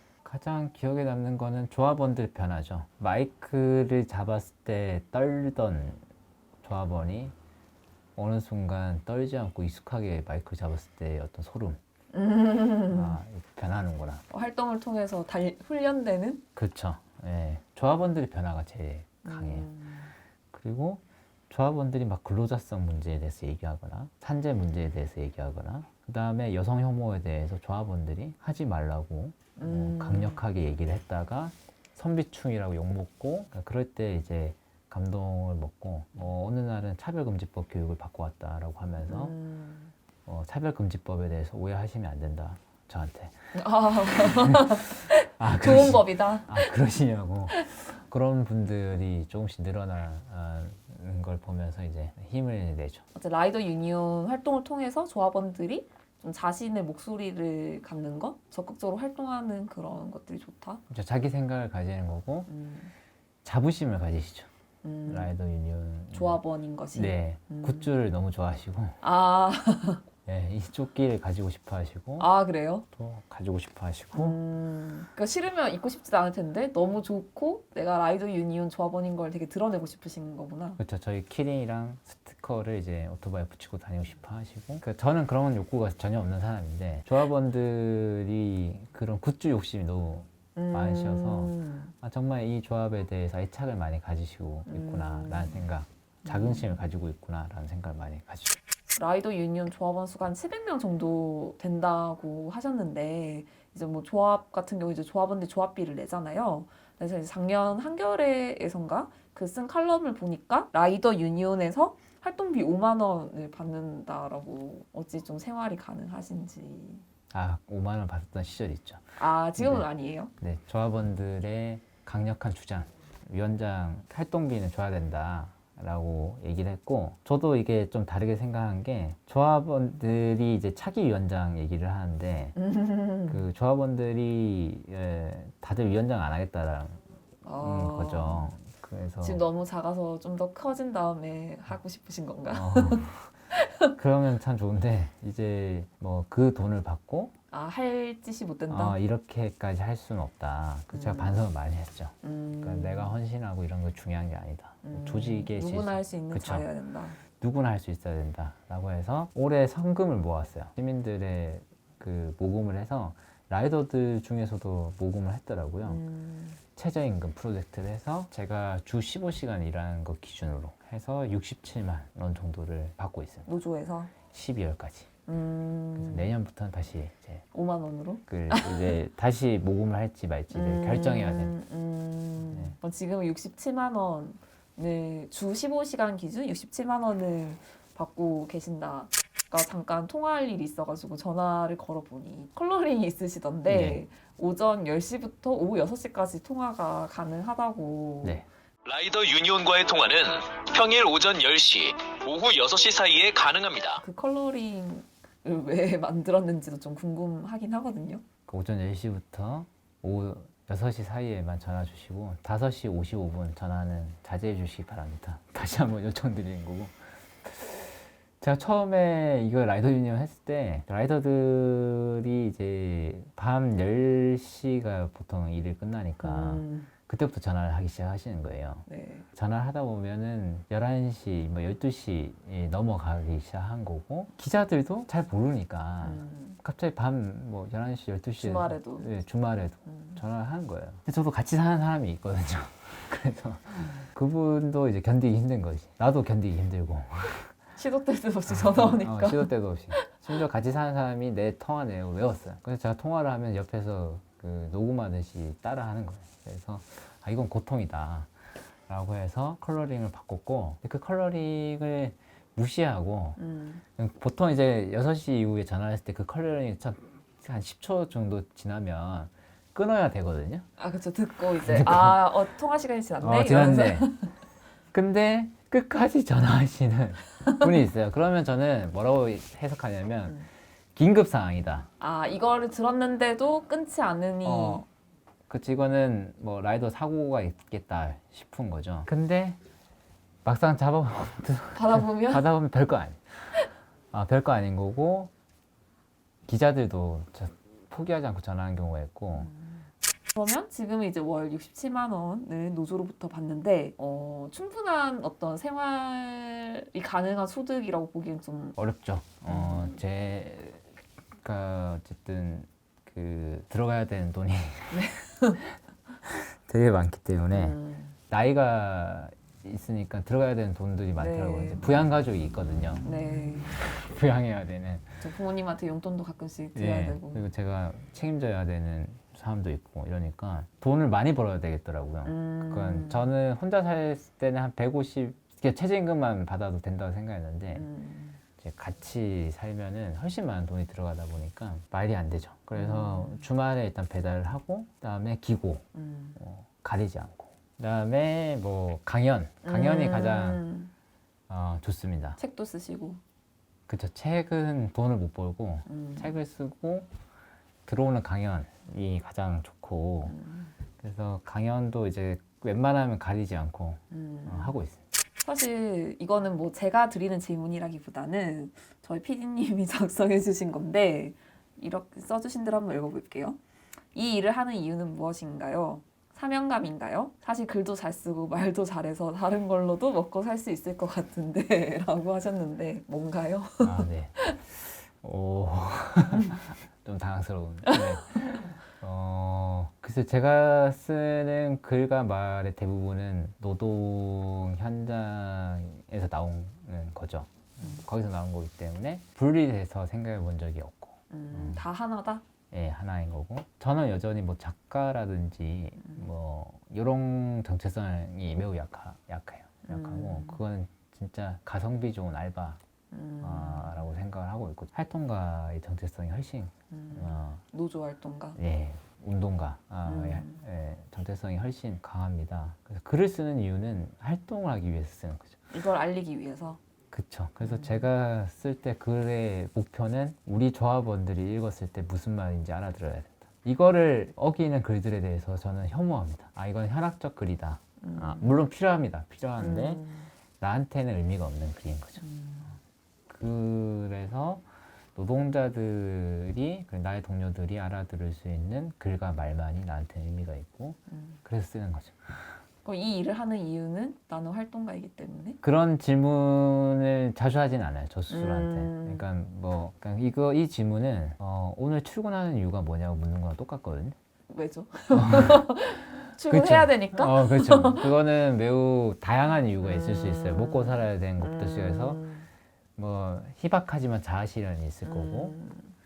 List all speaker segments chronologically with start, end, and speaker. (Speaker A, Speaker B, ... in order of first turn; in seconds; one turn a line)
Speaker A: 0.2-6.0
Speaker A: 6.6-7.3
Speaker A: 8.2-11.8
Speaker B: 12.1-13.2
Speaker A: 12.9-14.2
Speaker B: 14.3-16.4
Speaker A: 16.6-19.7
Speaker B: 19.2-20.1
Speaker A: 20.5-39.4
Speaker B: 29.6-30.4
Speaker B: 39.1-39.9
Speaker A: 40.3-43.4
Speaker B: 43.5-46.8
Speaker A: 44.1-53.0
Speaker B: 53.1-60.8
Speaker A: 60.9-62.5
Speaker B: 62.5-62.9
Speaker A: 63.5-64.5
Speaker B: 64.8-65.3
Speaker A: 65.1-66.4
Speaker B: 66.1-67.9
Speaker A: 66.9-69.0
Speaker B: 69.0-70.0
Speaker A: 70.3-72.3
Speaker B: 72.2-72.8
Speaker A: 72.9-74.4
Speaker B: 74.1-80.8
Speaker A: 80.8-98.6
Speaker B: 90.5-91.9
Speaker B: 94.7-95.7
Speaker B: 96.2-96.8
Speaker B: 99.0-117.0
Speaker A: 117.3-119.9
Speaker B: 119.2-120.3
Speaker A: 120.4-132.6
Speaker B: 132.6-133.4
Speaker A: 133.3-137.0
Speaker B: 137.4-138.6
Speaker A: 137.6-139.4
Speaker B: 139.2-143.9
Speaker A: 142.5-143.3
Speaker A: 143.9-147.3
Speaker B: 147.5-149.0
Speaker A: 148.7-156.7
Speaker B: 150.9-151.4
Speaker B: 152.2-153.2
Speaker B: 154.8-157.2
Speaker A: 157.2-166.0
Speaker B: 165.9-166.6
Speaker A: 166.8-173.5
Speaker B: 173.5-174.1
Speaker A: 174.3-175.1
Speaker B: 175.3-176.3
Speaker A: 176.0-177.4
Speaker B: 177.5-179.0
Speaker A: 178.3-181.6
Speaker B: 180.5-198.4
Speaker A: 182.5-182.8
Speaker A: 193.7-194.0
Speaker C: 198.8-204.0
Speaker B: 204.0-208.2
Speaker A: 208.5-247.5
Speaker B: 226.2-226.9
Speaker B: 228.9-229.3
Speaker B: 236.0-236.6
Speaker B: 238.4-239.1
Speaker B: 239.9-240.2
Speaker B: 247.8-250.2
Speaker A: 248.5-258.3
Speaker A: 258.9-263.4
Speaker B: 263.4-263.8
Speaker A: 264.0-270.7
Speaker B: 270.8-274.3
Speaker A: 271.6-272.3
Speaker A: 273.2-274.1
Speaker A: 274.9-280.4
Speaker A: 281.0-281.9
Speaker B: 282.0-284.9
Speaker A: 284.4-284.9
Speaker A: 285.5-289.6
Speaker A: 290.4-293.6
Speaker B: 291.7-292.5
Speaker A: 294.1-295.3
Speaker A: 296.5-299.5
Speaker B: 299.4-308.8
Speaker A: 308.8-315.1
Speaker B: 309.5-310.0
Speaker B: 314.9-315.6
Speaker A: 316.2-317.8
Speaker B: 317.5-318.2
Speaker A: 318.3-323.1
Speaker B: 321.2-322.0
Speaker B: 323.0-323.7
Speaker A: 323.7-325.2
Speaker B: 325.2-327.4
Speaker A: 326.8-337.9
Speaker B: 332.2-333.3
Speaker B: 337.7-338.4
Speaker A: 338.6-345.9
Speaker B: 342.8-343.4
Speaker B: 345.9-346.4
Speaker A: 346.4-350.6
Speaker B: 349.6-350.9
Speaker A: 351.5-352.4
Speaker B: 352.4-353.2
Speaker A: 353.9-357.1
Speaker B: 355.9-356.4
Speaker A: 357.9-360.4
Speaker B: 360.3-360.7
Speaker A: 361.0-365.0
Speaker B: 364.1-364.8
Speaker B: 365.4-373.6
Speaker B: 374.1-384.6
Speaker A: 383.8-401.8
Speaker B: 387.9-388.3
Speaker B: 401.3-402.4
Speaker A: 402.7-412.8
Speaker B: 409.9-410.6
Speaker B: 413.1-413.9
Speaker A: 413.4-417.6
Speaker B: 416.9-418.6
Speaker A: 418.6-425.6
Speaker B: 420.1-420.6
Speaker B: 425.7-426.8
Speaker A: 427.1-440.1
Speaker B: 427.6-428.0
Speaker B: 438.0-438.6
Speaker B: 439.6-440.3
Speaker A: 440.6-442.2
Speaker B: 442.2-442.8
Speaker A: 443.3-444.6
Speaker A: 445.1-452.6
Speaker B: 451.1-451.4
Speaker B: 452.8-455.6
Speaker A: 455.6-464.2
Speaker B: 458.3-459.2
Speaker B: 464.5-468.1
Speaker A: 465.1-465.8
Speaker A: 466.5-472.2
Speaker B: 469.8-472.5
Speaker A: 473.0-475.6
Speaker B: 475.1-475.9